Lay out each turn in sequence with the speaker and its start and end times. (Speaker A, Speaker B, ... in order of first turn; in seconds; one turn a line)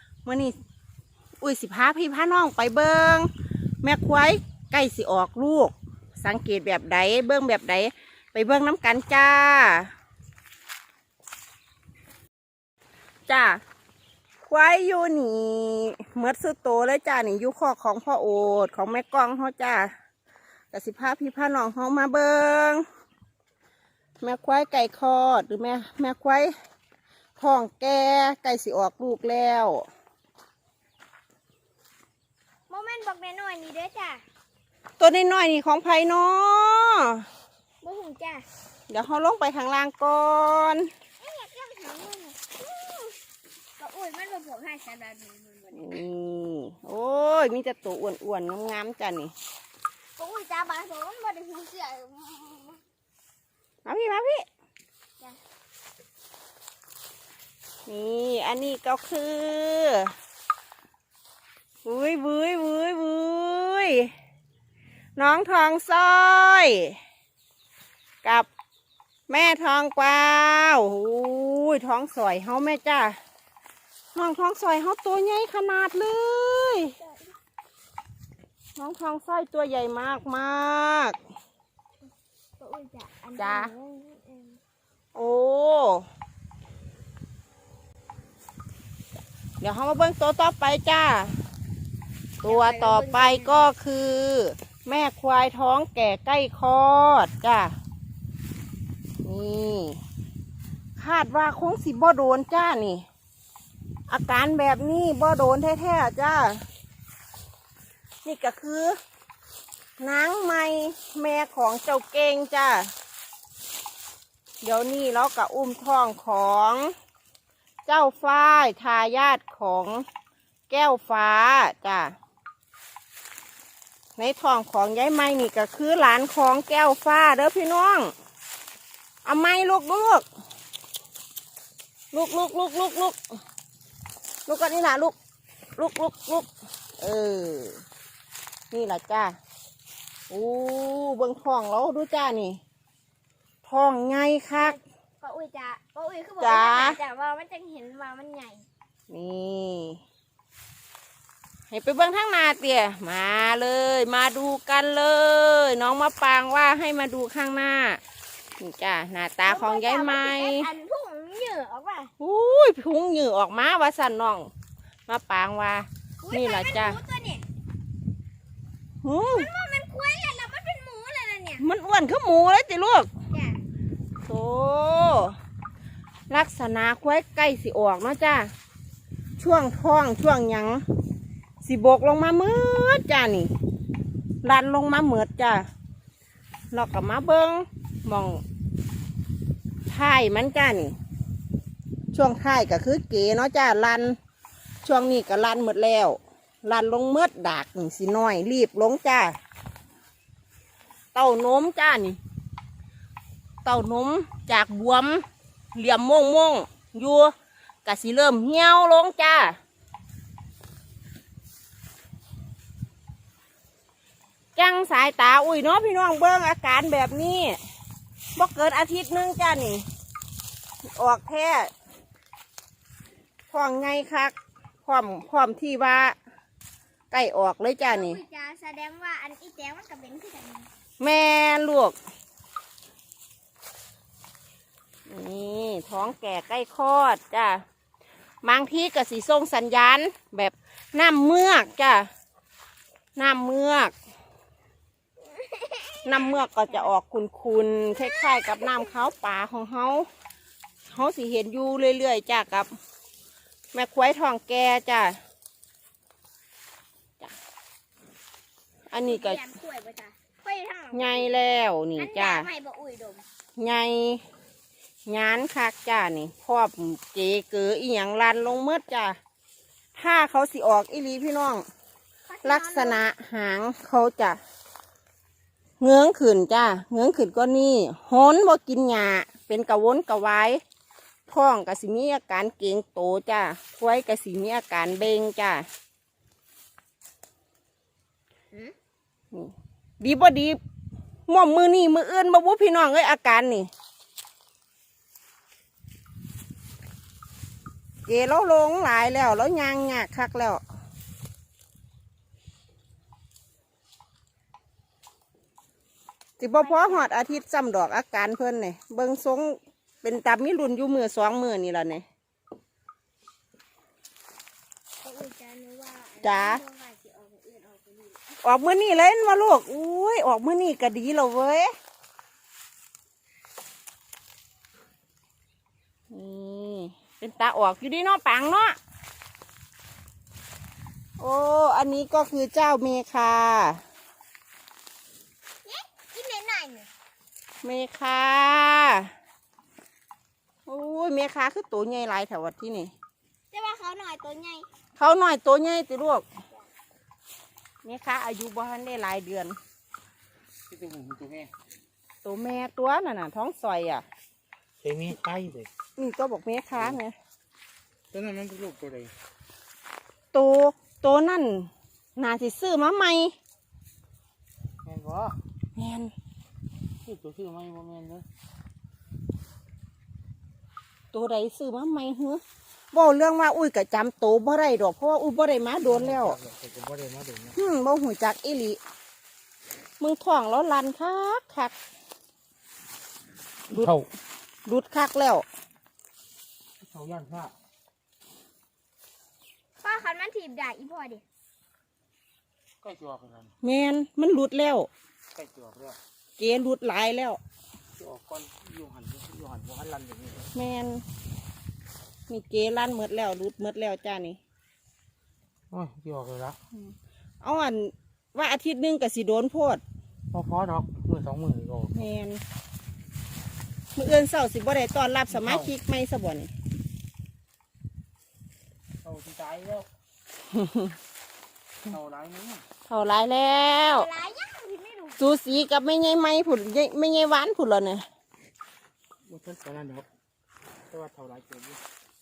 Speaker A: 0.2-0.5
Speaker A: 1.4-3.3
Speaker A: 3.8-9.9
Speaker A: 13.3-13.6
Speaker A: 14.4-19.9
Speaker A: 20.7-22.8
Speaker A: 24.2-26.5
Speaker A: 27.4-29.9
Speaker B: 32.7-34.2
Speaker A: 35.0-37.2
Speaker B: 37.8-38.4
Speaker A: 38.9-40.9
Speaker B: 41.2-43.2
Speaker B: 43.8-46.0
Speaker A: 45.7-49.3
Speaker B: 50.2-52.8
Speaker A: 53.8-54.4
Speaker A: 57.9-60.1
Speaker A: 61.8-64.1
Speaker A: 65.2-67.0
Speaker A: 69.3-73.2
Speaker A: 74.1-76.9
Speaker B: 77.0-77.3
Speaker A: 78.8-81.2
Speaker B: 82.6-84.6
Speaker A: 83.3-83.7
Speaker A: 85.1-86.1
Speaker A: 89.6-91.4
Speaker A: 92.4-97.7
Speaker B: 92.4-93.7
Speaker A: 99.2-100.0
Speaker A: 101.0-103.0
Speaker A: 104.1-106.6
Speaker A: 108.2-109.0
Speaker A: 110.0-112.9
Speaker A: 114.6-116.9
Speaker A: 117.8-120.0
Speaker A: 120.7-122.1
Speaker A: 124.2-128.1
Speaker A: 129.2-130.2
Speaker A: 132.1-133.2
Speaker A: 134.4-135.1
Speaker A: 135.8-137.8
Speaker A: 138.7-139.3
Speaker A: 140.3-142.6
Speaker A: 143.6-144.8
Speaker B: 144.6-148.7
Speaker A: 146.4-147.0
Speaker A: 149.1-150.0
Speaker A: 151.7-158.0
Speaker A: 158.6-160.7
Speaker B: 159.4-162.1
Speaker A: 162.2-164.5
Speaker A: 165.1-167.0
Speaker B: 166.2-167.4
Speaker A: 169.0-169.5
Speaker B: 169.2-171.6
Speaker A: 171.6-173.1
Speaker B: 173.3-173.6
Speaker A: 174.2-175.3
Speaker A: 176.3-178.5
Speaker A: 179.4-180.8
Speaker A: 181.6-183.5
Speaker A: 184.4-185.7
Speaker A: 186.7-188.4
Speaker A: 189.9-190.9
Speaker A: 192.1-194.2
Speaker A: 194.8-199.3
Speaker A: 201.1-202.2
Speaker A: 203.6-207.3
Speaker A: 207.8-209.6
Speaker A: 214.6-217.6
Speaker A: 218.3-219.8
Speaker A: 220.9-221.7
Speaker A: 223.5-224.3
Speaker A: 224.8-226.1
Speaker A: 227.1-228.2
Speaker B: 227.9-230.7
Speaker A: 231.0-231.9
Speaker A: 235.1-237.6
Speaker A: 238.4-242.1
Speaker A: 243.2-243.9
Speaker B: 245.3-246.9
Speaker A: 246.0-250.1
Speaker B: 247.9-248.9
Speaker A: 250.9-252.7
Speaker A: 253.7-255.2
Speaker A: 258.9-259.4
Speaker B: 258.9-261.3
Speaker A: 260.9-262.5
Speaker B: 261.9-263.2
Speaker A: 263.6-264.2
Speaker A: 265.1-269.2
Speaker A: 269.9-271.6
Speaker B: 272.3-273.1
Speaker A: 272.4-274.4
Speaker A: 275.8-280.6
Speaker A: 281.3-285.6
Speaker A: 289.3-290.6
Speaker A: 291.3-293.7
Speaker A: 298.1-300.6
Speaker A: 306.4-312.0
Speaker B: 306.6-307.1
Speaker B: 315.0-318.4
Speaker A: 316.2-316.6
Speaker A: 318.4-321.7
Speaker A: 326.1-328.8
Speaker A: 331.2-333.8
Speaker B: 335.6-336.9
Speaker A: 337.6-339.1
Speaker A: 340.6-342.9
Speaker B: 343.5-344.6
Speaker A: 345.0-346.2
Speaker A: 347.8-349.6
Speaker C: 350.7-351.5
Speaker A: 352.2-354.1
Speaker C: 354.8-355.7
Speaker A: 356.0-357.1
Speaker C: 358.1-359.1
Speaker A: 360.3-363.4
Speaker C: 364.8-365.4
Speaker A: 365.8-366.1
Speaker C: 367.0-368.3
Speaker A: 371.1-372.4
Speaker A: 372.9-376.4
Speaker C: 376.1-377.5
Speaker A: 377.5-378.8
Speaker A: 380.0-381.7
Speaker A: 383.7-384.1
Speaker A: 384.6-385.4
Speaker C: 386.8-387.5
Speaker B: 389.8-391.2
Speaker C: 392.8-393.5
Speaker A: 393.6-394.9
Speaker C: 395.3-396.0
Speaker A: 396.4-397.4
Speaker C: 398.0-400.5
Speaker A: 400.5-401.0
Speaker A: 402.3-404.4
Speaker C: 405.7-406.6
Speaker A: 406.7-409.8
Speaker C: 410.3-411.9
Speaker A: 411.9-412.4
Speaker A: 413.9-416.5
Speaker C: 419.0-419.9
Speaker A: 420.5-420.9
Speaker C: 421.9-422.6
Speaker A: 422.9-424.1
Speaker B: 423.8-425.2
Speaker A: 425.2-428.1
Speaker C: 429.2-430.1
Speaker C: 430.9-431.8